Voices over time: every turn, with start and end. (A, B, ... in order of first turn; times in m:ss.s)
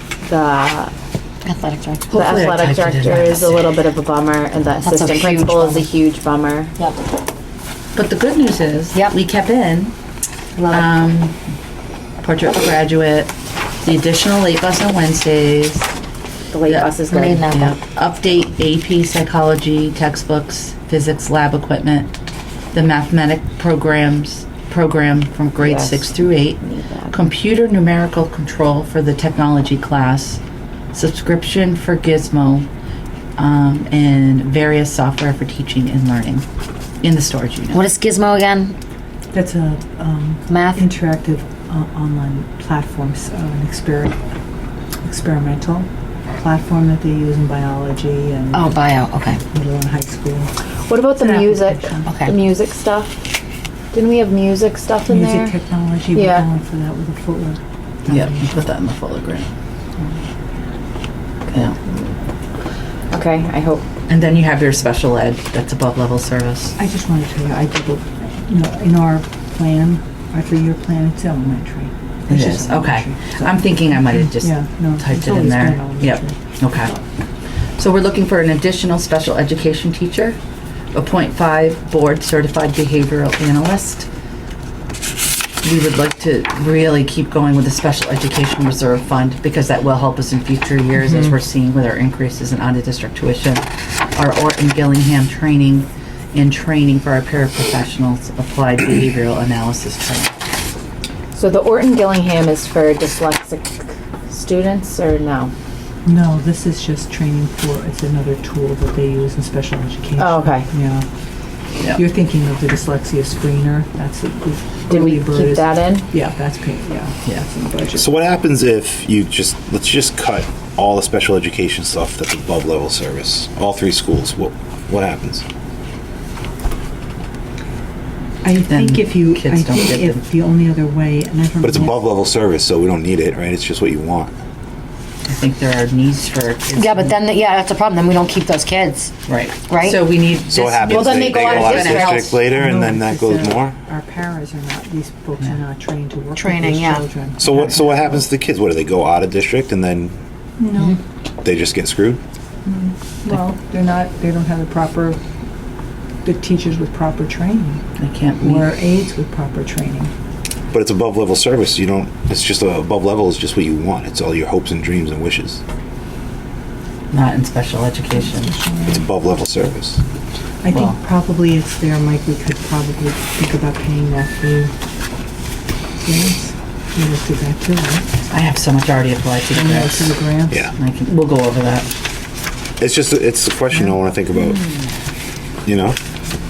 0:00.2-0:00.9 A
0:01.4-0:02.2 B
0:02.1-0:03.7 C
0:02.1-0:06.7 A
0:04.8-0:05.9 B
0:08.0-0:09.9 C
0:10.6-0:10.9 B
0:10.7-0:11.4 C
0:12.2-0:15.9 C
0:16.5-0:17.4 A
0:16.7-0:22.1 C
0:17.1-0:17.8 B
0:22.7-0:30.4 C
0:25.6-0:27.2 A
0:30.9-0:32.7 C
0:33.4-0:36.4 C
0:37.0-0:37.8 C
0:37.7-0:38.7 B
0:39.3-0:44.2 D
0:40.5-0:40.9 B
0:45.0-0:48.8 D
0:48.5-0:49.4 B
0:49.4-0:50.5 D
0:50.8-0:53.2 A
0:51.1-0:52.1 D
0:52.0-0:52.3 B
0:53.9-0:55.6 A
0:55.1-0:58.5 D
0:56.1-0:56.5 A
0:58.1-0:59.5 C
1:01.5-1:02.1 A
1:03.1-1:03.8 A
1:04.1-1:06.8 C
1:06.8-1:16.4 D
1:12.3-1:17.0 C
1:17.8-1:20.4 C
1:20.9-1:24.1 C
1:25.6-1:33.6 C
1:34.1-1:40.3 C
1:41.3-1:45.5 A
1:46.0-1:51.1 D
1:50.2-1:50.7 A
1:51.9-1:58.0 D
1:54.9-1:56.1 A
1:58.0-2:05.4 E
2:08.4-2:12.0 D
2:08.7-2:10.2 C
2:11.6-2:14.3 E
2:15.3-2:17.2 C
2:16.7-2:19.1 B
2:19.3-2:22.4 C
2:19.7-2:20.1 B
2:20.4-2:23.8 E
2:20.9-2:22.3 A
2:22.4-2:28.2 D
2:26.3-2:27.0 B
2:27.4-2:30.1 E
2:30.6-2:31.0 D
2:31.4-2:32.2 E
2:32.6-2:35.2 D
2:36.2-2:37.8 D
2:38.0-2:38.8 C
2:38.4-2:40.1 D
2:40.7-2:45.6 E
2:47.1-2:48.5 C
2:48.2-2:49.0 D
2:48.9-2:50.0 E
2:50.6-2:54.7 D
2:50.7-2:51.0 C
2:56.0-2:58.1 D
2:58.3-3:00.2 C
2:59.5-3:00.7 D
3:00.8-3:01.9 C
3:02.8-3:04.7 E
3:03.7-3:04.0 D
3:05.6-3:06.0 E